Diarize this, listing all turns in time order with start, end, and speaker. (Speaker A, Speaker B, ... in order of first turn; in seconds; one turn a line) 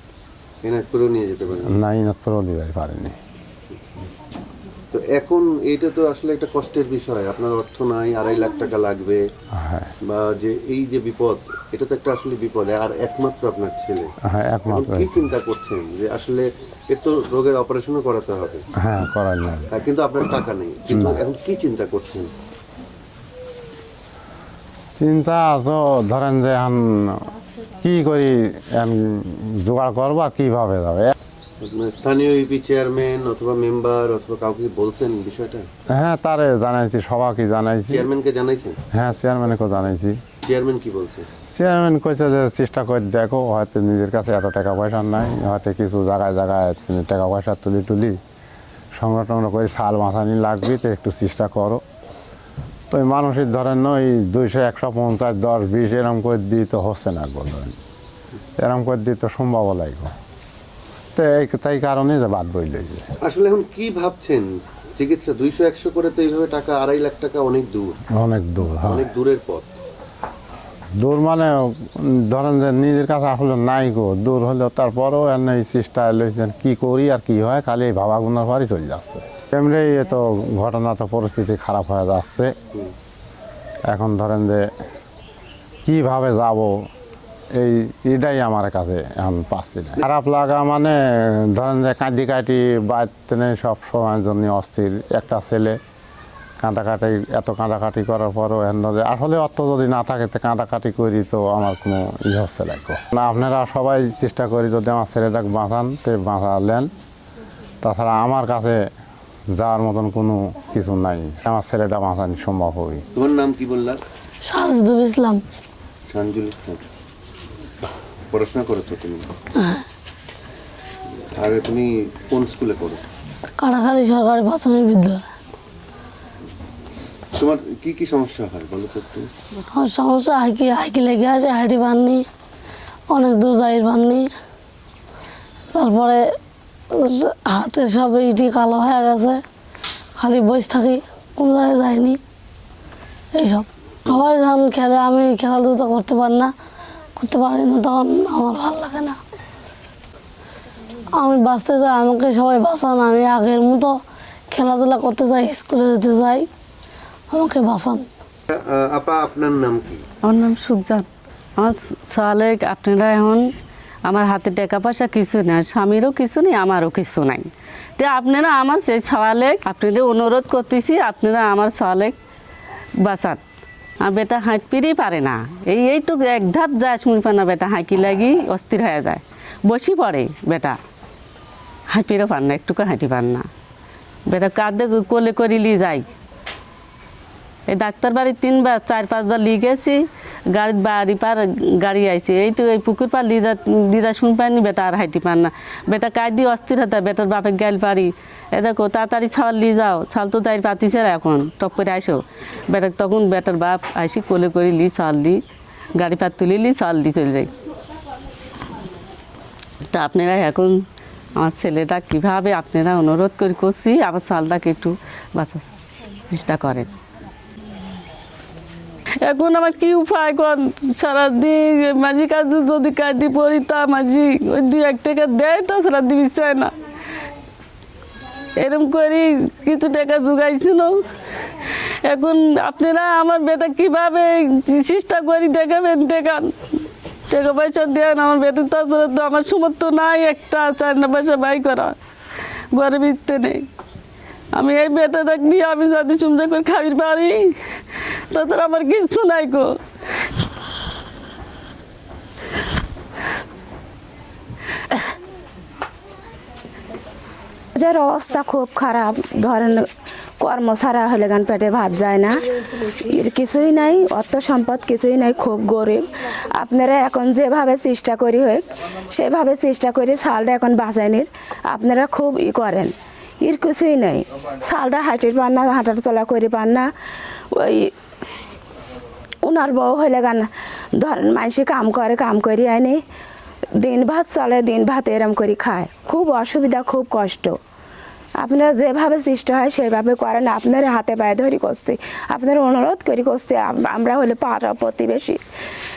Speaker A: 0.6-1.8
Speaker B: 1.7-3.1
Speaker A: 4.9-9.2
Speaker B: 9.6-9.9
Speaker A: 10.1-14.1
Speaker B: 14.3-15.3
Speaker A: 14.7-18.6
Speaker B: 18.8-19.7
Speaker A: 19.7-22.3
Speaker B: 20.9-21.2
Speaker B: 24.9-27.3
Speaker B: 27.8-31.1
Speaker A: 31.6-35.7
Speaker B: 35.9-38.1
Speaker A: 37.9-38.8
Speaker B: 38.9-40.2
Speaker A: 40.5-41.3
Speaker B: 41.5-48.2
Speaker B: 49.0-51.8
Speaker B: 52.9-57.8
Speaker B: 58.6-60.1
Speaker B: 61.1-63.0
Speaker A: 63.2-68.0
Speaker B: 68.1-69.1
Speaker A: 68.8-69.7
Speaker B: 71.0-82.5
Speaker B: 83.9-84.7
Speaker B: 85.9-86.8
Speaker B: 87.5-95.8
Speaker B: 96.6-106.9
Speaker B: 107.8-108.8
Speaker B: 109.6-113.0
Speaker A: 113.2-114.0
Speaker C: 114.4-115.4
Speaker A: 116.1-116.8
Speaker A: 118.3-119.2
Speaker A: 121.4-123.0
Speaker C: 123.6-125.2
Speaker A: 127.3-129.3
Speaker C: 129.7-132.3
Speaker C: 133.1-134.3
Speaker C: 135.7-136.3
Speaker C: 136.9-139.4
Speaker C: 140.2-142.2
Speaker C: 143.3-146.5
Speaker C: 147.2-149.2
Speaker C: 151.1-154.0
Speaker C: 154.5-156.5
Speaker C: 157.3-158.1
Speaker A: 158.5-160.0
Speaker D: 160.2-161.1
Speaker D: 161.6-163.5
Speaker D: 164.1-172.2
Speaker D: 173.0-173.4
Speaker D: 174.0-180.8
Speaker D: 181.9-183.5
Speaker D: 184.3-186.1
Speaker D: 187.7-190.0
Speaker D: 190.5-205.4
Speaker D: 206.0-207.5
Speaker D: 209.9-210.8
Speaker D: 211.4-215.7
Speaker D: 216.3-216.9
Speaker D: 219.2-226.7
Speaker D: 228.6-231.0
Speaker D: 232.1-236.5
Speaker D: 237.3-241.9
Speaker D: 242.8-243.6
Speaker D: 244.6-247.5
Speaker D: 248.3-249.7
Speaker E: 257.8-259.9
Speaker E: 260.4-276.9
Speaker E: 277.5-277.9
Speaker E: 279.4-283.0
Speaker E: 283.8-287.6
Speaker E: 288.4-295.4